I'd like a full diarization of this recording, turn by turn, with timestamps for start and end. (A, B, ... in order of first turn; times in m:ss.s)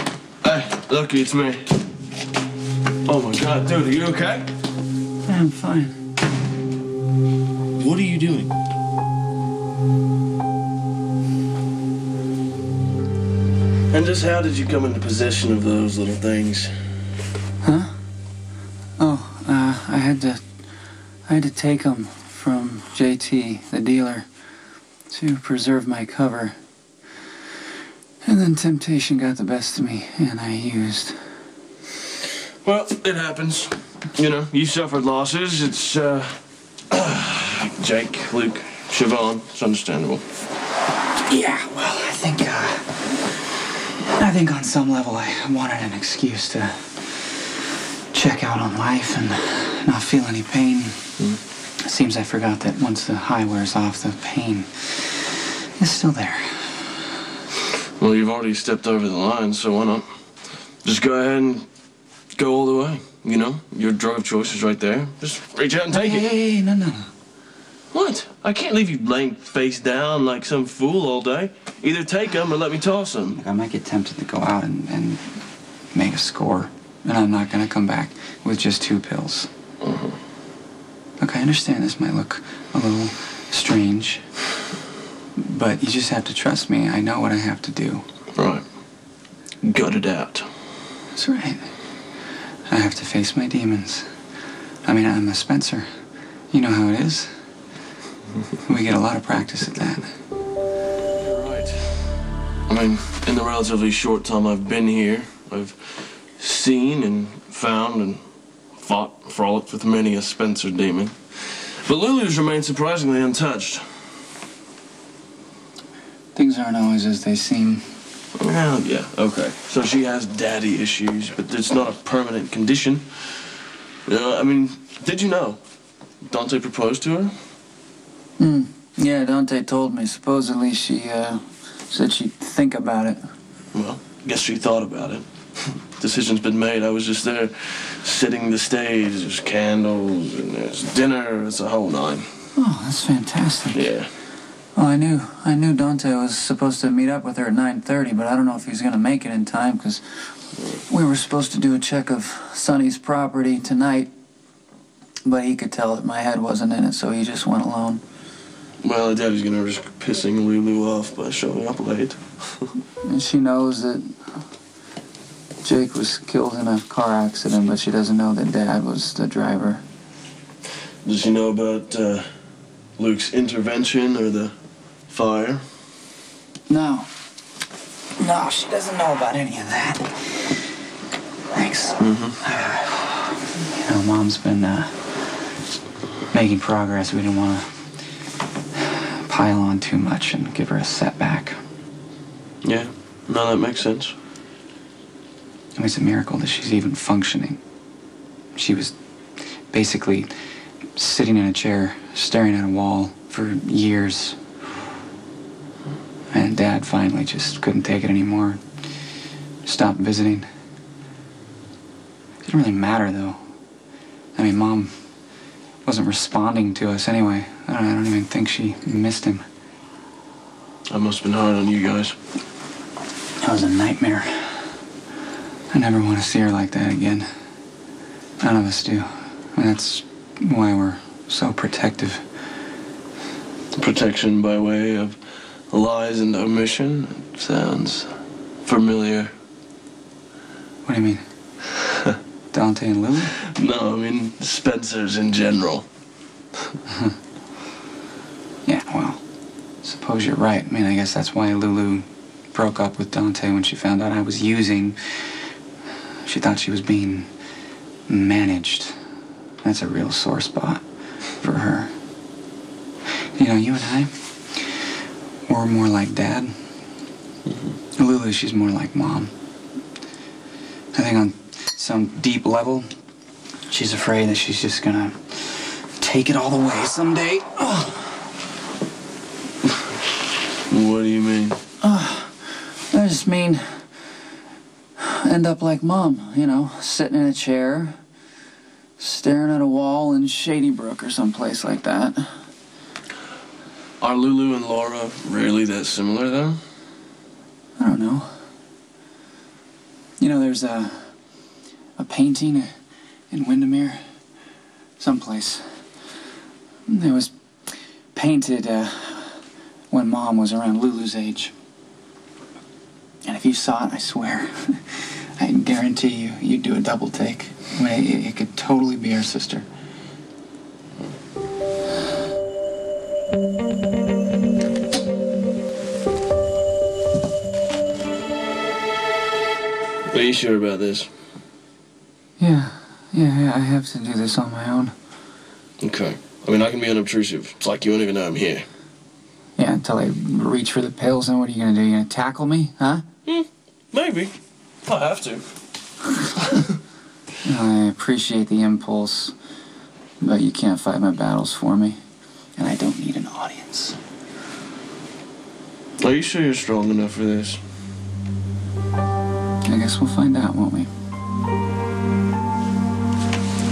0:00.4-0:01.6 A
0:03.0-0:04.5 A
0:05.3-0:06.0 B
0:07.7-0:08.5 A
0:13.9-0:16.7 A
0:17.6-0:17.9 B
0:19.0-0:20.4 B
0:21.3-0:24.2 B
0:25.1-0:26.6 B
0:28.2-0:31.2 B
0:32.6-0:36.3 A
0:36.9-0:40.2 A
0:41.2-0:43.0 B
0:44.0-0:46.9 B
0:48.1-0:51.0 B
0:51.8-0:57.0 B
0:58.0-1:00.0 A
1:00.8-1:01.6 A
1:02.3-1:06.3 A
1:05.9-1:07.1 B
1:07.9-1:13.4 A
1:13.3-1:15.2 B
1:15.9-1:19.5 B
1:19.8-1:20.2 A
1:21.2-1:24.2 B
1:25.4-1:28.0 B
1:28.4-1:28.6 A
1:29.6-1:30.5 A
1:31.1-1:31.7 B
1:32.7-1:34.0 B
1:34.8-1:35.9 B
1:36.5-1:37.3 B
1:38.6-1:40.1 B
1:41.2-1:41.8 A
1:42.7-1:48.2 A
1:48.8-1:53.9 A
1:56.4-1:57.9 B
1:58.4-2:03.5 A
2:04.0-2:05.6 A
2:06.2-2:07.3 A
2:08.4-2:13.2 B
2:13.7-2:22.3 A
2:22.6-2:23.9 B
2:23.7-2:24.1 A
2:24.8-2:34.1 B
2:35.2-2:38.0 B
2:38.8-2:42.6 A
2:43.0-2:44.0 B
2:45.6-2:49.8 B
2:51.0-2:52.2 A
2:53.0-2:54.5 A
2:55.1-2:55.6 A
2:56.7-2:57.1 B
2:58.2-3:00.6 B
3:01.5-3:04.9 B
3:02.0-3:02.4 A
3:06.3-3:07.7 B
3:08.8-3:11.6 B
3:12.6-3:14.1 A
3:15.8-3:17.6 B
3:18.5-3:18.9 B
3:19.7-3:20.3 B
3:21.0-3:24.4 B
3:26.3-3:28.6 B
3:29.6-3:30.4 B
3:32.4-3:33.4 B
3:34.4-3:34.9 B
3:35.8-3:39.4 B
3:40.9-3:42.1 A
3:43.4-3:44.7 B
3:45.7-3:47.2 B
3:48.4-3:52.2 B
3:53.7-3:55.2 A
3:55.7-3:58.1 A
3:58.6-3:59.3 A
4:00.8-4:01.2 B
4:02.5-4:03.3 B
4:03.5-4:05.9 A
4:08.6-4:09.2 B
4:09.8-4:15.4 B
4:16.2-4:17.3 B
4:18.1-4:19.0 B
4:19.6-4:20.8 B
4:21.4-4:21.9 B
4:23.4-4:24.8 B
4:25.5-4:26.5 B
4:28.0-4:29.3 B
4:30.9-4:32.8 B
4:33.7-4:38.3 B
4:40.7-4:41.6 A
4:41.8-4:43.8 B
4:45.0-4:48.0 B
4:49.0-4:52.3 B
4:54.0-4:56.6 A
4:57.8-4:58.3 B
5:00.2-5:01.1 B
5:02.0-5:02.7 B
5:03.3-5:04.0 B
5:05.0-5:05.6 B
5:06.9-5:07.3 B
5:08.1-5:09.4 B
5:09.9-5:11.5 B
5:13.2-5:19.6 B
5:30.1-5:31.1 A
5:32.4-5:34.9 B
5:35.8-5:38.6 A
5:39.6-5:43.0 B
5:43.2-5:44.3 A
5:44.8-5:45.4 A
5:47.4-5:49.3 B
5:50.2-5:52.0 B
5:52.6-5:54.0 B
5:56.0-5:57.6 A
5:59.6-6:00.9 B